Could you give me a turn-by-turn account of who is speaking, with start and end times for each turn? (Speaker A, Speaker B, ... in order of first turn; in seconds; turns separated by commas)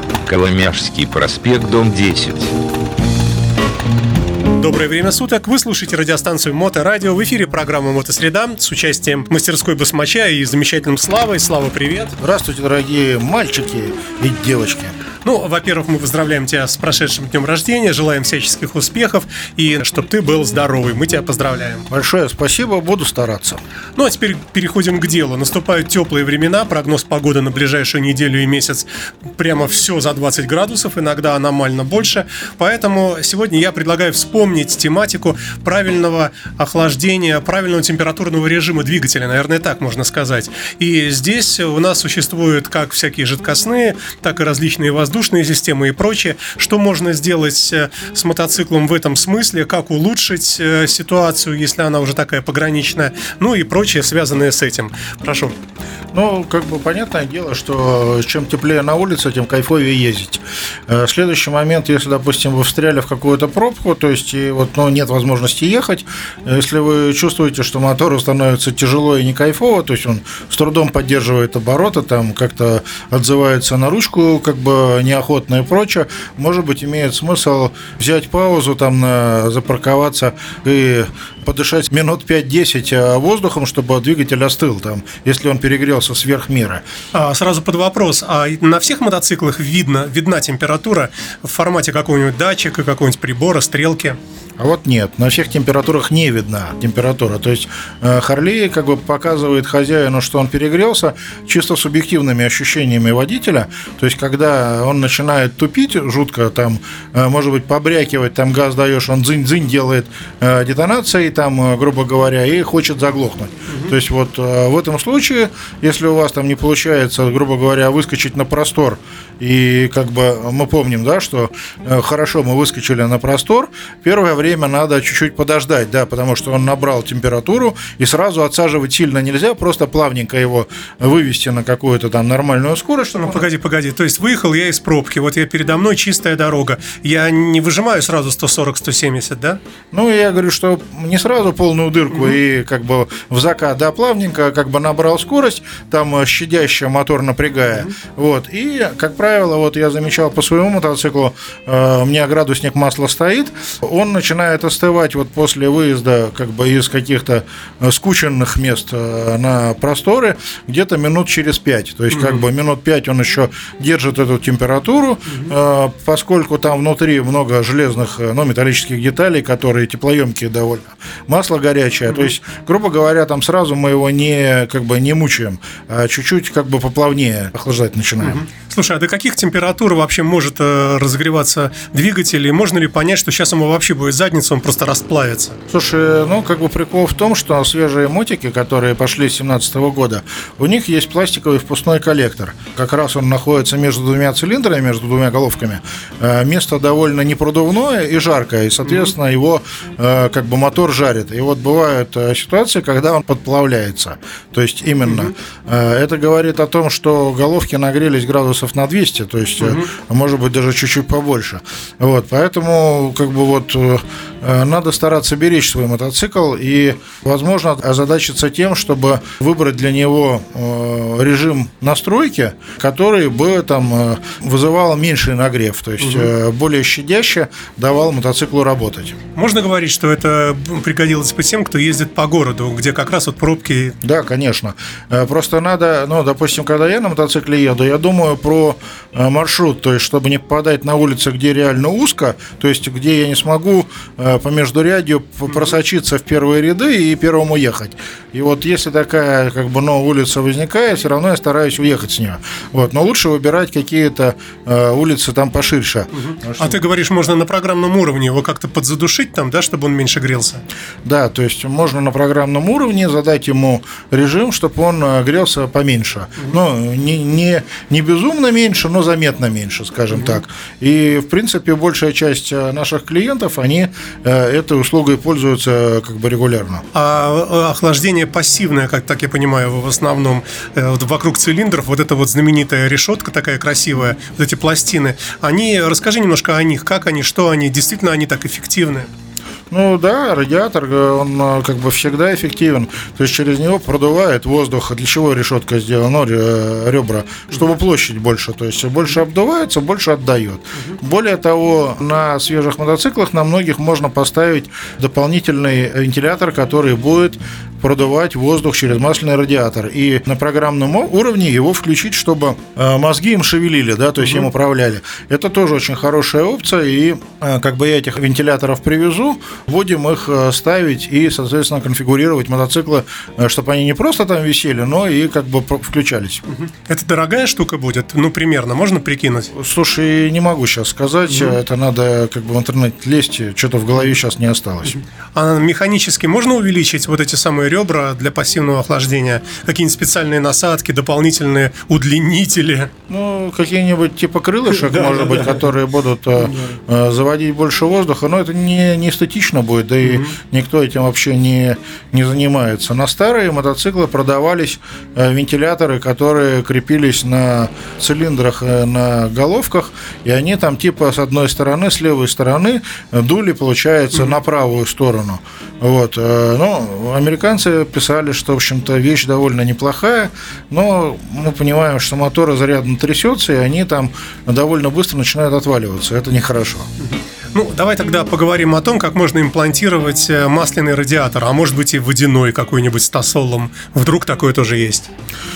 Speaker A: 0.2-2.5, Speaker B: 4.5-12.1, Speaker C: 12.2-14.9, Speaker B: 15.2-21.9, Speaker C: 21.9-23.6, Speaker B: 23.9-55.5, Speaker C: 56.1-86.8, Speaker B: 87.1-94.2, Speaker C: 94.6-133.5, Speaker B: 113.7-113.9, Speaker B: 133.1-139.6, Speaker C: 139.9-178.4, Speaker B: 142.1-142.4, Speaker B: 162.1-162.4, Speaker B: 178.2-185.6, Speaker C: 185.7-229.2, Speaker B: 198.8-199.1, Speaker B: 205.0-205.3, Speaker B: 209.6-209.9, Speaker B: 226.0-226.3, Speaker B: 229.3-233.9, Speaker C: 234.0-256.8, Speaker B: 256.6-260.6, Speaker C: 261.0-276.8, Speaker B: 270.1-270.4, Speaker B: 276.9-289.1, Speaker C: 289.7-326.4, Speaker B: 314.2-314.5, Speaker B: 326.5-329.5, Speaker C: 329.5-335.0, Speaker B: 331.3-331.6, Speaker B: 334.9-342.9, Speaker C: 343.1-376.9, Speaker B: 344.8-345.5, Speaker B: 346.4-346.7, Speaker B: 350.0-350.3, Speaker B: 377.0-385.1